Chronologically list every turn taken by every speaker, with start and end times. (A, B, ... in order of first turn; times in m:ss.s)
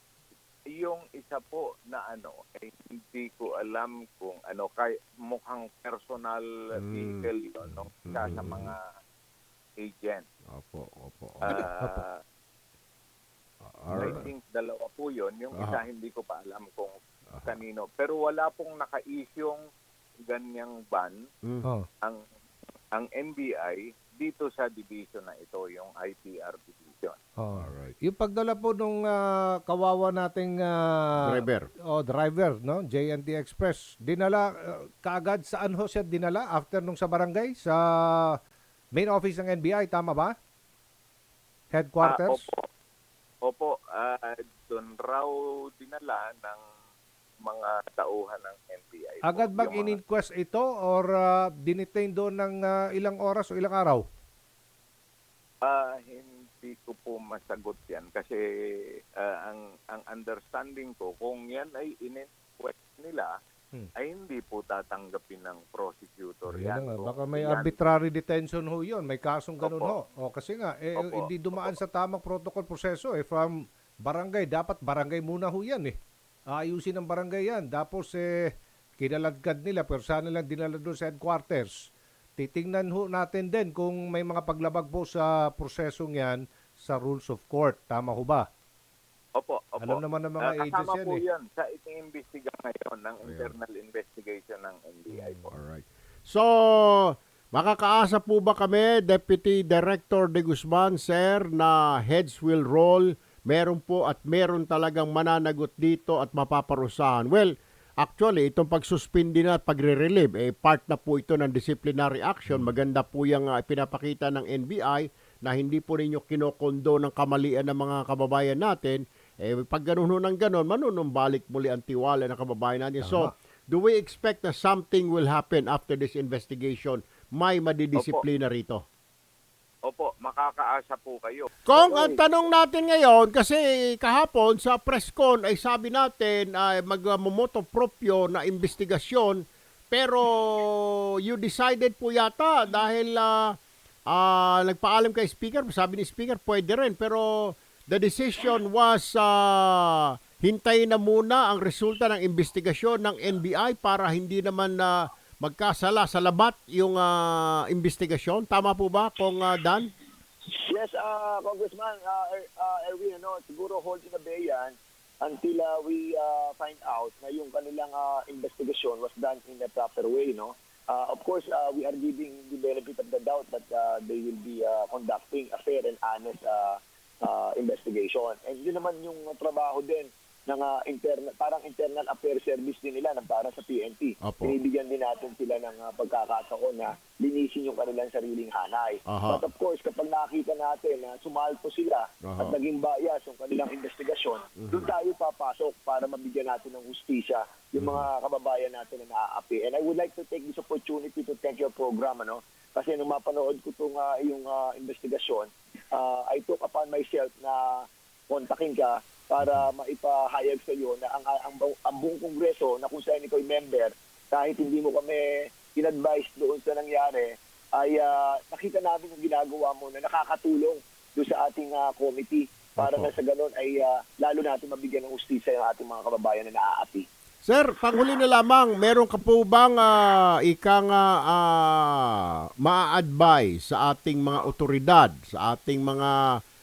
0:00.7-0:08.8 A
0:06.8-0:07.3 B
0:08.1-0:08.7 B
0:09.8-0:10.3 A
0:10.5-0:11.6 B
0:11.5-0:12.2 A
0:13.6-0:14.3 B
0:13.9-0:19.6 A
0:15.6-0:15.8 B
0:20.3-0:21.2 A
0:23.0-0:27.2 A
0:27.5-0:28.0 B
0:28.1-0:29.1 C
0:29.7-0:30.7 C
0:31.2-0:31.7 B
0:31.9-0:34.5 C
0:35.0-0:38.4 C
0:39.0-0:40.3 C
0:41.7-0:42.0 C
0:42.0-0:42.6 A
0:43.5-0:46.6 A
0:47.4-0:50.0 A
0:49.3-0:51.1 C
0:51.7-0:54.0 C
0:55.6-1:03.3 A
1:04.0-1:07.9 A
1:08.0-1:13.5 C
1:09.6-1:10.0 A
1:11.0-1:11.8 A
1:14.1-1:16.0 C
1:16.5-1:18.2 C
1:19.0-1:28.4 C
1:29.4-1:35.5 A
1:30.0-1:31.2 C
1:33.2-1:33.5 B
1:35.5-2:08.8 B
2:08.0-2:08.2 A
2:09.9-2:11.6 A
2:11.7-2:23.6 B
2:11.8-2:12.2 D
2:24.1-2:39.9 B
2:40.6-3:47.1 D
3:04.2-3:04.6 B
3:09.1-3:09.4 B
3:12.2-3:12.6 B
3:14.6-3:14.9 B
3:17.8-3:18.1 B
3:42.8-3:43.1 B
3:47.4-3:56.2 B